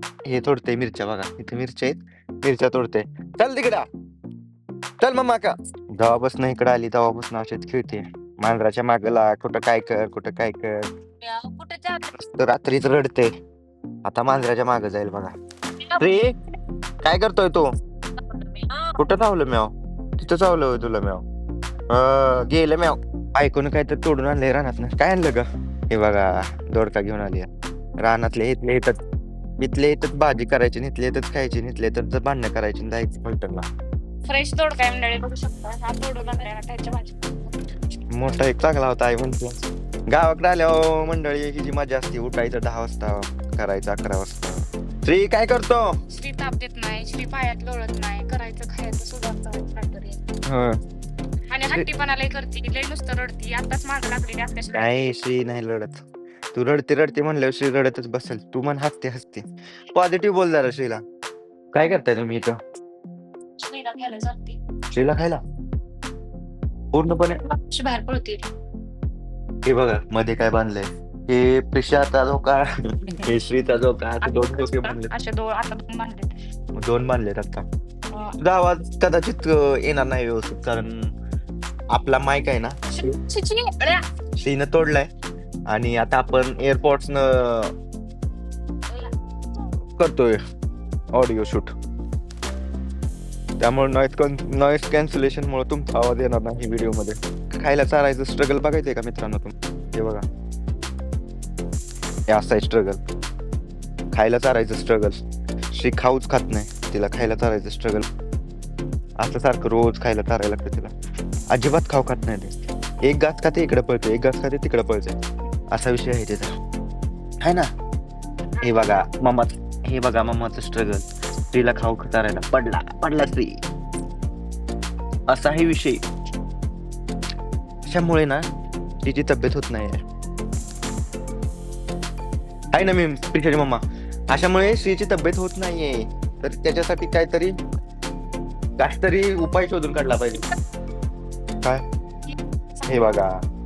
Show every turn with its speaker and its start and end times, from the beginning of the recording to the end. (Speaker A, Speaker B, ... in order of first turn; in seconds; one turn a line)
Speaker A: 0.2-3.9
Speaker A: 5.0-10.9
Speaker B: 11.2-12.0
Speaker A: 12.1-13.3
Speaker A: 14.0-15.3
Speaker A: 15.9-16.4
Speaker A: 17.0-17.7
Speaker B: 18.3-18.8
Speaker A: 18.9-21.2
Speaker A: 21.9-27.5
Speaker A: 28.0-28.9
Speaker A: 29.6-33.6
Speaker B: 34.3-37.2
Speaker A: 38.1-45.9
Speaker B: 46.1-50.2
Speaker A: 50.5-50.8
Speaker B: 51.5-54.9
Speaker A: 54.7-56.0
Speaker A: 56.5-61.0
Speaker A: 61.7-62.6
Speaker B: 63.6-64.5
Speaker A: 64.9-65.4
Speaker A: 66.9-67.4
Speaker B: 67.4-68.4
Speaker A: 69.6-72.7
Speaker A: 73.2-75.1
Speaker B: 74.2-76.3
Speaker A: 76.7-77.6
Speaker A: 78.4-81.1
Speaker A: 81.9-82.8
Speaker B: 82.9-84.0
Speaker A: 84.4-85.1
Speaker A: 85.7-87.7
Speaker A: 90.0-90.4
Speaker A: 91.1-91.7
Speaker A: 93.6-100.2
Speaker A: 102.3-103.0
Speaker A: 104.1-105.2
Speaker A: 105.7-108.0
Speaker A: 109.2-110.9
Speaker A: 111.5-115.2
Speaker A: 115.7-116.5
Speaker A: 117.4-117.7
Speaker A: 118.6-123.6
Speaker A: 125.3-126.0
Speaker A: 127.8-128.4
Speaker A: 129.0-130.0
Speaker A: 132.7-137.5
Speaker A: 138.8-140.4
Speaker A: 142.8-143.3